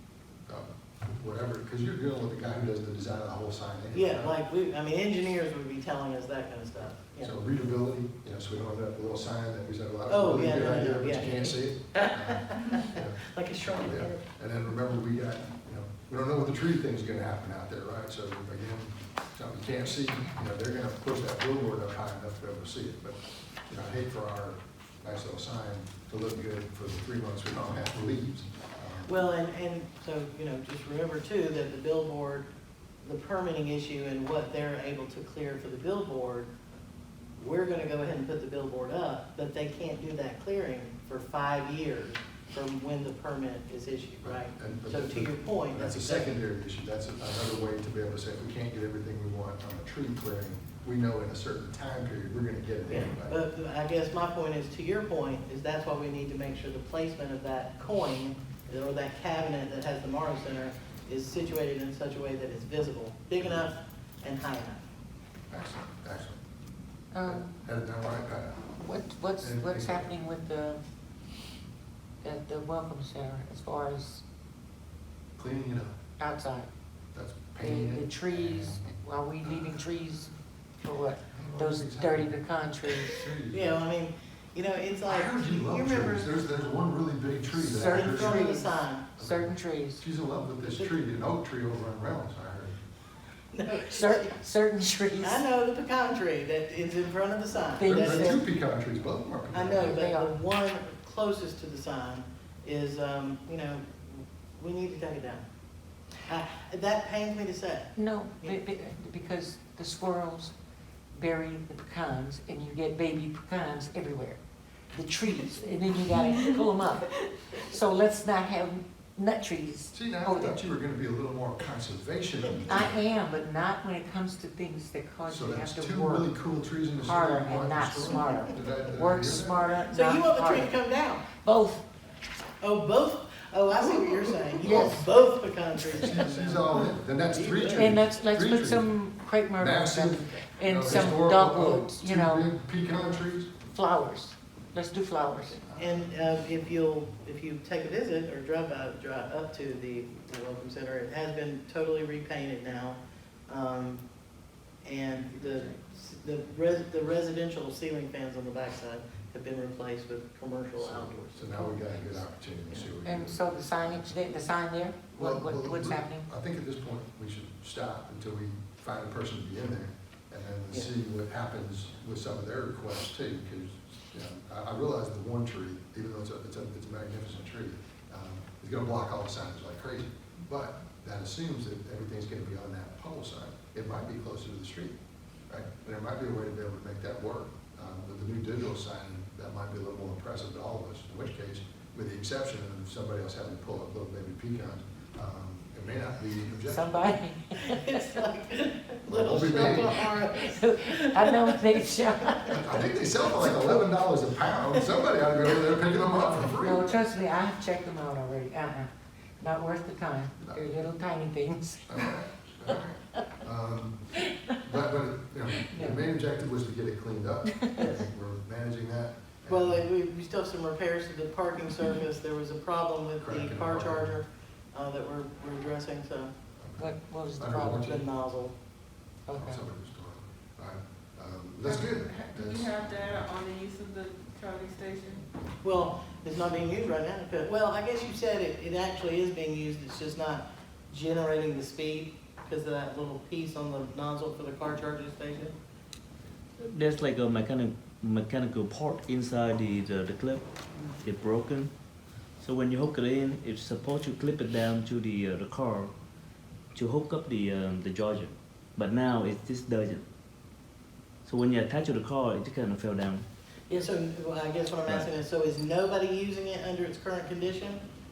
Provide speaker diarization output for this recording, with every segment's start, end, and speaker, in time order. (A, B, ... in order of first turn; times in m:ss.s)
0:00.5-0:04.3 A
0:03.9-0:07.4 B
0:07.2-0:29.2 A
0:10.1-0:14.2 B
0:29.0-0:32.5 B
0:33.0-0:36.5 B
0:37.4-0:46.4 B
0:44.2-0:53.3 A
0:52.9-1:04.8 B
1:05.5-1:06.4 A
1:07.1-1:07.5 C
1:07.2-1:08.8 A
1:08.8-1:10.8 C
1:09.4-1:10.1 A
1:12.2-1:14.2 C
1:15.4-1:16.0 A
1:16.2-1:16.7 C
1:17.1-1:19.8 A
1:17.6-1:23.2 C
1:21.3-1:22.4 A
1:22.9-1:23.8 A
1:23.5-1:26.4 B
1:25.1-1:28.5 A
1:27.5-1:30.0 C
1:27.7-1:29.1 B
1:29.2-1:32.8 A
1:30.6-1:30.9 B
1:33.5-1:34.4 B
1:33.6-1:35.4 C
1:35.2-1:38.4 B
1:37.8-1:38.4 C
1:37.8-1:40.0 A
1:39.5-1:45.4 B
1:39.8-1:40.3 C
1:46.2-1:48.6 B
1:47.9-1:50.5 C
1:51.1-1:54.4 C
1:54.9-2:00.7 C
1:59.9-2:02.9 A
2:02.7-2:06.3 C
2:05.3-2:09.7 A
2:07.0-2:10.8 C
2:09.9-2:11.3 B
2:11.4-2:11.8 C
2:12.6-2:18.0 B
2:14.6-2:14.9 A
2:14.6-2:15.1 C
2:15.9-2:18.9 A
2:17.7-2:22.5 C
2:19.6-2:23.6 A
2:23.6-2:25.6 C
2:25.6-2:26.1 A
2:25.7-2:34.0 B
2:34.8-2:41.6 B
2:40.8-2:44.1 A
2:41.6-2:42.2 C
2:43.0-2:46.3 C
2:45.1-3:04.9 A
3:05.5-3:16.9 A
3:16.6-3:18.0 C
3:17.6-3:21.7 B
3:19.0-3:20.1 A
3:19.6-3:22.8 C
3:22.5-3:26.9 A
3:23.4-3:23.8 C
3:26.4-3:32.0 C
3:30.4-3:30.7 A
3:31.9-3:39.8 A
3:35.7-3:36.0 C
3:37.8-3:38.0 B
3:39.4-3:46.3 B
3:43.2-3:44.2 A
3:46.6-3:48.0 A
3:46.8-3:48.0 C
3:47.8-3:48.5 B
3:49.3-3:49.6 C
3:49.3-3:53.2 A
3:51.6-3:55.2 D
3:55.6-4:05.5 B
4:06.6-4:10.4 E
4:11.0-4:11.7 E
4:12.4-4:15.9 E
4:16.7-4:20.0 E
4:21.2-4:23.2 E
4:23.8-4:27.8 B